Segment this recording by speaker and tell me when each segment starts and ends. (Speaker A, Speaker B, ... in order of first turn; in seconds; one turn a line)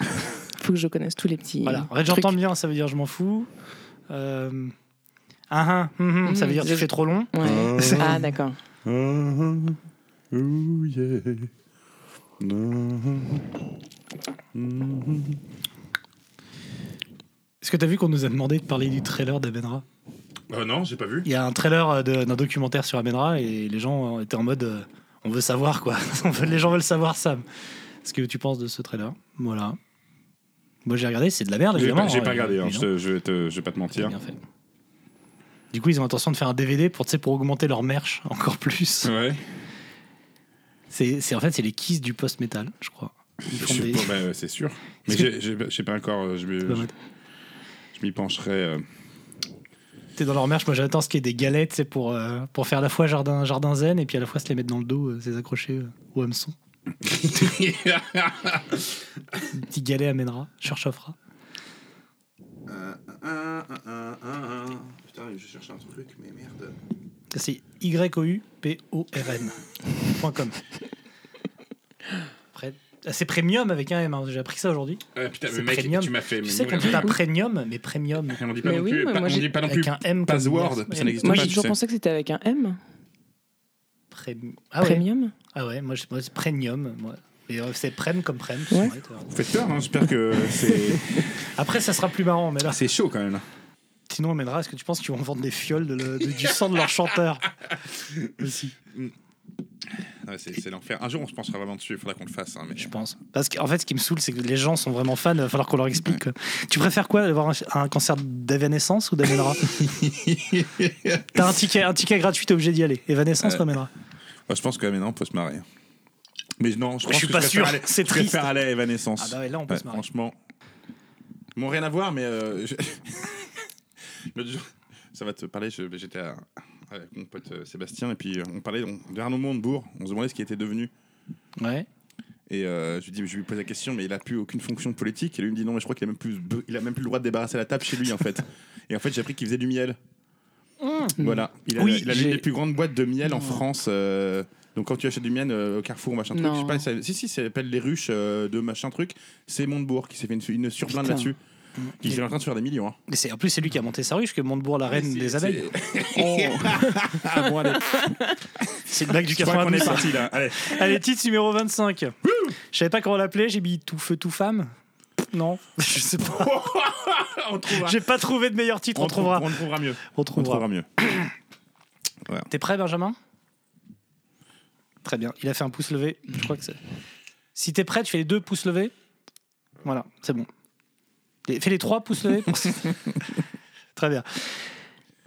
Speaker A: 0.6-2.3
Speaker B: 1.6-3.5
Speaker B: 4.1-4.7
Speaker B: 5.5-8.1
Speaker A: 6.2-8.6
Speaker C: 7.4-8.2
Speaker C: 8.8-9.8
Speaker C: 10.3-11.5
Speaker C: 12.4-13.6
Speaker C: 14.5-15.4
Speaker B: 17.6-19.8
Speaker C: 20.5-21.3
Speaker B: 21.2-27.4
Speaker B: 28.0-29.8
Speaker B: 30.9-32.9
Speaker C: 31.7-34.1
Speaker B: 34.0-34.4
Speaker B: 35.7-39.1
Speaker C: 39.0-39.4
Speaker B: 40.9-44.1
Speaker C: 43.5-46.9
Speaker B: 46.7-46.9
Speaker C: 47.9-48.9
Speaker B: 50.2-56.5
Speaker C: 57.0-59.4
Speaker B: 59.5-61.2
Speaker C: 62.7-66.8
Speaker B: 67.3-70.6
Speaker B: 72.5-78.4
Speaker C: 75.1-77.2
Speaker C: 78.3-81.8
Speaker A: 78.6-79.6
Speaker B: 79.6-81.5
Speaker A: 81.2-82.8
Speaker B: 84.1-89.3
Speaker A: 84.8-85.3
Speaker C: 89.3-91.3
Speaker B: 91.5-92.8
Speaker C: 92.6-93.4
Speaker B: 94.1-97.5
Speaker C: 97.9-98.3
Speaker B: 98.4-98.7
Speaker C: 100.2-102.9
Speaker B: 102.8-109.7
Speaker C: 109.7-111.4
Speaker B: 111.3-113.9
Speaker C: 113.4-113.7
Speaker C: 114.5-115.7
Speaker C: 116.6-120.4
Speaker B: 117.0-118.5
Speaker B: 119.2-120.0
Speaker C: 121.5-123.6
Speaker C: 124.3-130.9
Speaker B: 131.6-131.8
Speaker C: 132.5-140.0
Speaker B: 140.8-142.4
Speaker C: 141.2-151.4
Speaker A: 146.3-146.8
Speaker A: 150.9-151.3
Speaker B: 151.8-152.2
Speaker C: 152.0-153.0
Speaker B: 153.1-155.7
Speaker C: 154.9-160.8
Speaker A: 156.2-156.9
Speaker B: 158.9-162.1
Speaker C: 162.2-162.5
Speaker B: 162.7-164.7
Speaker B: 165.3-166.5
Speaker C: 166.2-168.0
Speaker B: 167.7-171.2
Speaker C: 168.9-170.9
Speaker B: 172.5-173.2
Speaker B: 175.0-176.8
Speaker B: 177.5-178.9
Speaker B: 179.8-180.5
Speaker B: 181.5-183.0
Speaker B: 183.9-184.4